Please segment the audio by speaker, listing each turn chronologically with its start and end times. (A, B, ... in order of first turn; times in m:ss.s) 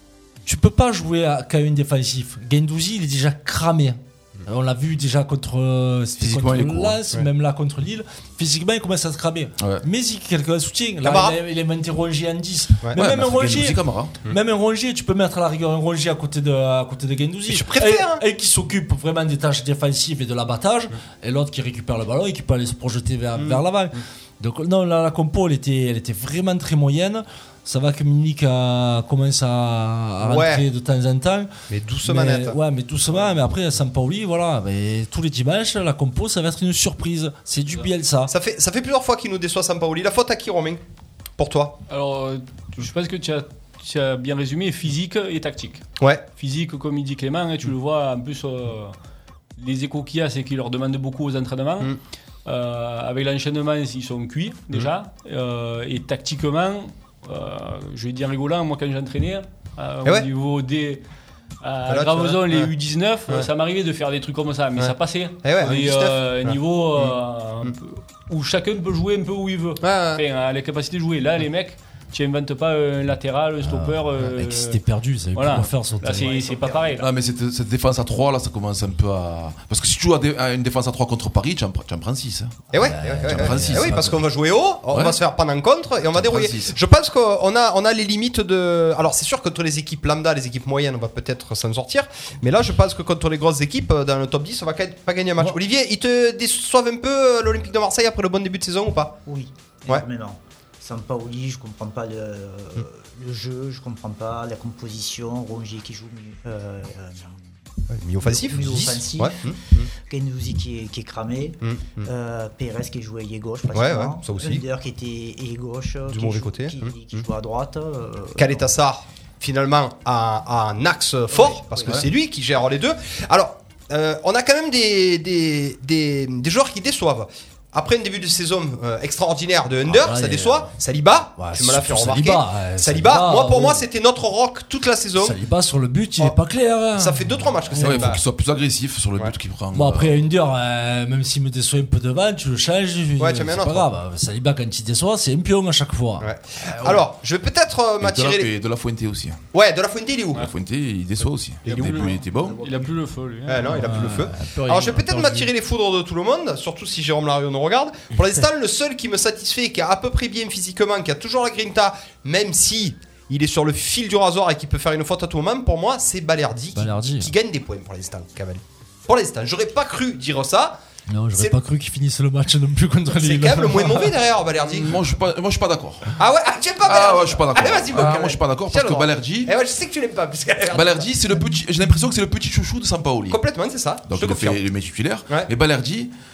0:00.4-0:31.5 A
0:06.2-0:07.0 B
0:09.6-0:09.8 B
0:11.0-0:11.4 C
0:12.9-0:14.2 B
0:17.5-0:18.2 C
0:23.4-0:24.0 C
0:30.2-0:30.6 C
0:31.7-0:32.6 C
0:32.0-0:38.3 A
0:38.3-0:40.8 C
0:41.4-0:41.8 C
0:41.9-0:45.8 D
0:46.4-0:48.9 D
0:49.6-0:51.9 D
0:52.4-1:01.0 D
1:01.6-1:14.8 D
1:01.9-1:02.7 C
1:04.8-1:07.7 C
1:09.8-1:10.2 C
1:13.6-1:16.3 A
1:15.3-1:17.1 D
1:16.1-1:17.0 E
1:16.9-1:22.6 B
1:22.7-1:39.2 C
1:22.7-1:24.2 A
1:23.2-1:24.1 B
1:24.9-1:25.2 B
1:26.1-1:26.8 B
1:39.2-1:47.4 E
1:47.9-1:49.9 C
1:48.2-1:58.6 E
1:51.6-1:52.1 C
1:53.7-1:54.6 C
1:56.1-1:57.3 C
1:58.4-2:15.4 C
2:01.3-2:02.1 E
2:09.9-2:10.7 A
2:11.4-2:13.8 A
2:15.2-2:18.2 A
2:16.9-2:18.2 C
2:17.8-2:20.2 B
2:19.7-2:27.0 A
2:23.2-2:23.9 C
2:26.2-2:28.5 C
2:28.0-2:29.4 B
2:29.5-2:30.5 C
2:30.3-2:32.6 B
2:31.7-2:32.2 C
2:31.8-2:34.0 D
2:32.5-2:32.8 E
2:33.4-2:50.8 C
2:33.7-2:35.5 A
2:46.7-2:47.3 A
2:51.1-2:54.1 A
2:53.1-2:55.0 C
2:54.7-2:56.1 B
2:56.2-3:01.1 C
2:56.8-2:59.5 B
3:00.7-3:03.4 B
3:03.3-3:04.6 C
3:04.1-3:06.1 B